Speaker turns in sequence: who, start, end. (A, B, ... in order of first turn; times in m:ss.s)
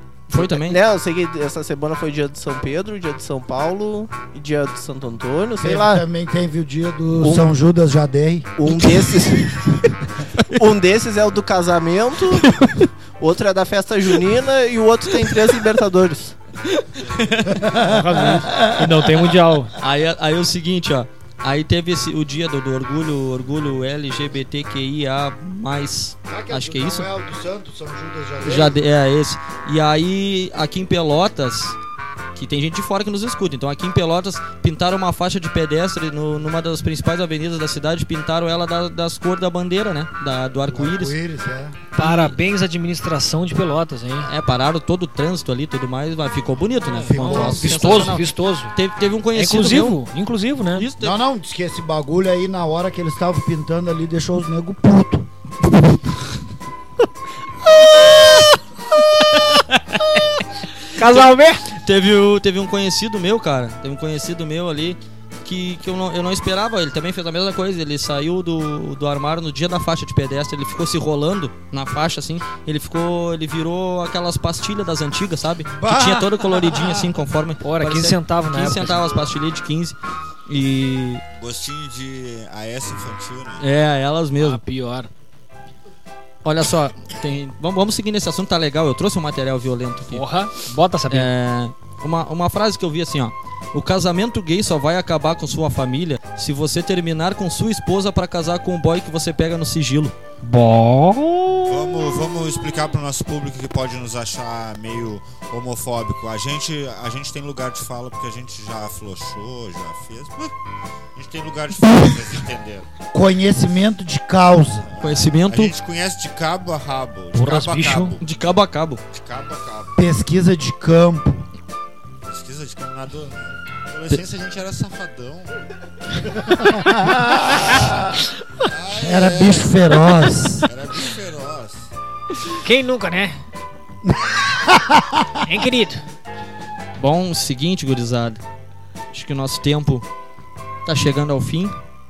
0:00.3-0:00.8 A
0:00.3-0:06.0 B
0:05.6-0:08.5 C
0:07.2-0:07.5 B
0:08.6-0:09.8 B
0:10.5-0:12.6 B
0:12.3-0:12.9 A
0:13.2-0:16.4 B
0:17.0-0:18.3 A
0:17.6-0:18.1 C
0:17.8-0:19.8 D
0:19.8-0:27.1 A
0:26.3-0:28.8 C
0:28.4-0:31.8 A
0:32.4-0:41.2 A
0:40.7-0:41.8 C
0:42.0-0:44.3 D
0:42.0-0:42.4 A
0:44.2-0:50.0 A
0:46.8-0:48.7 D
0:47.0-0:48.0 C
0:49.3-0:50.9 D
0:50.8-0:51.2 A
0:51.0-0:55.3 C
1:01.0-1:01.6 D
1:01.0-1:20.0 A
1:15.8-1:17.1 C
1:17.6-1:19.2 D
1:20.5-1:21.2 A
1:21.3-1:23.7 E
1:23.6-1:24.6 A
1:24.4-1:25.1 D
1:26.4-1:30.2 A
1:30.1-1:31.3 D
1:31.1-1:40.1 A
1:40.4-1:41.8 D
1:41.6-1:50.5 E
1:51.2-1:52.9 E
1:53.1-1:54.9 C
1:54.9-1:58.2 E
1:55.0-1:55.7 A
1:57.3-1:58.2 D
1:58.2-1:59.0 A
1:59.1-2:00.0 E
2:00.0-2:01.5 C
2:02.2-2:05.6 E
2:06.5-2:08.2 C
2:08.6-2:09.9 E
2:09.0-2:10.7 C
2:10.6-2:11.9 E
2:12.6-2:13.5 D
2:14.0-2:15.4 C
2:15.5-2:16.0 D
2:17.0-2:18.4 A
2:19.1-2:20.1 A
2:20.9-2:21.8 A